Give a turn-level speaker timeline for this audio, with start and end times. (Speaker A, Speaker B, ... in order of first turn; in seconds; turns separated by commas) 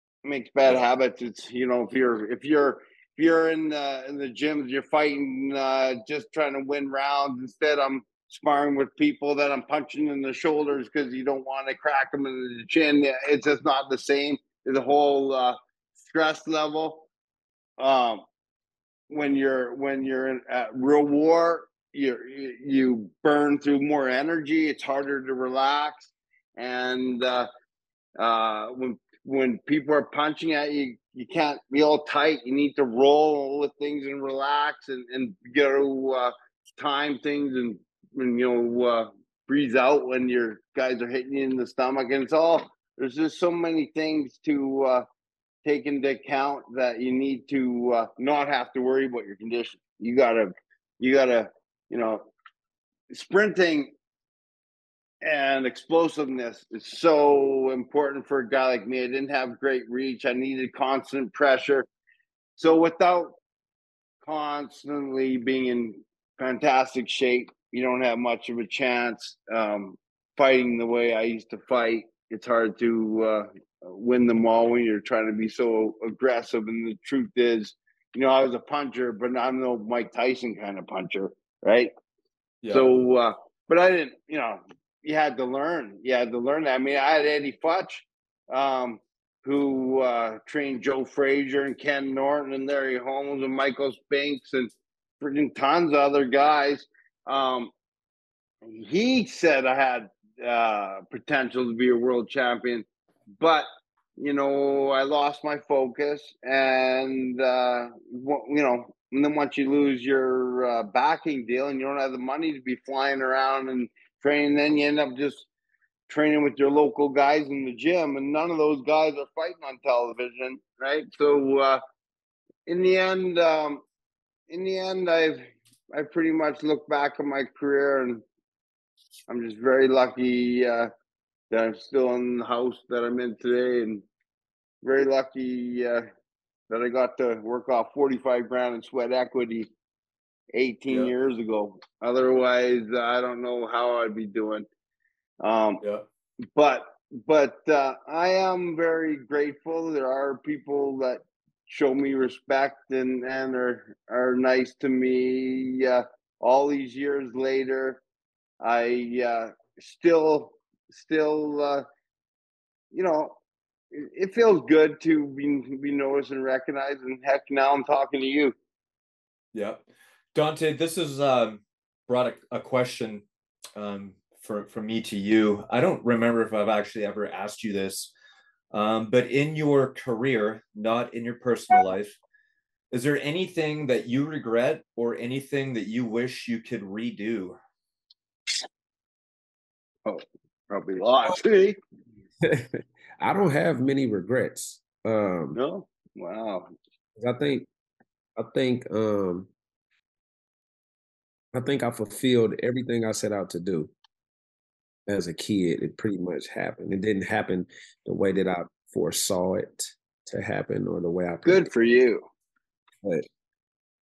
Speaker A: 0.2-17.1, Speaker A: 17.8-18.2, Speaker A: 19.1-27.5, Speaker A: 28.2-45.0, Speaker A: 45.6-52.3, Speaker A: 53.1-53.9, Speaker A: 55.2-61.9, Speaker A: 62.6-63.4, Speaker A: 64.2-81.9, Speaker B: 82.6-82.9, Speaker A: 82.7-97.7, Speaker A: 98.7-102.9, Speaker A: 103.4-115.5, Speaker A: 116.1-121.8, Speaker A: 122.7-123.8, Speaker A: 124.5-128.2, Speaker A: 129.3-130.9, Speaker A: 131.5-134.1, Speaker A: 134.8-136.1, Speaker A: 136.7-139.7, Speaker A: 140.5-144.7, Speaker A: 145.4-145.8, Speaker A: 146.6-158.0, Speaker A: 158.6-161.8, Speaker A: 162.9-163.4, Speaker A: 163.9-168.5, Speaker B: 169.5-169.8, Speaker B: 170.3-173.2, Speaker B: 173.8-178.1, Speaker B: 178.7-182.2, Speaker B: 182.9-187.6, Speaker A: 190.1-191.8, Speaker C: 192.4-195.6, Speaker A: 195.6-196.7, Speaker C: 197.2-197.7, Speaker C: 198.4-199.5, Speaker C: 201.5-203.9, Speaker C: 205.1-211.7, Speaker A: 211.4-212.2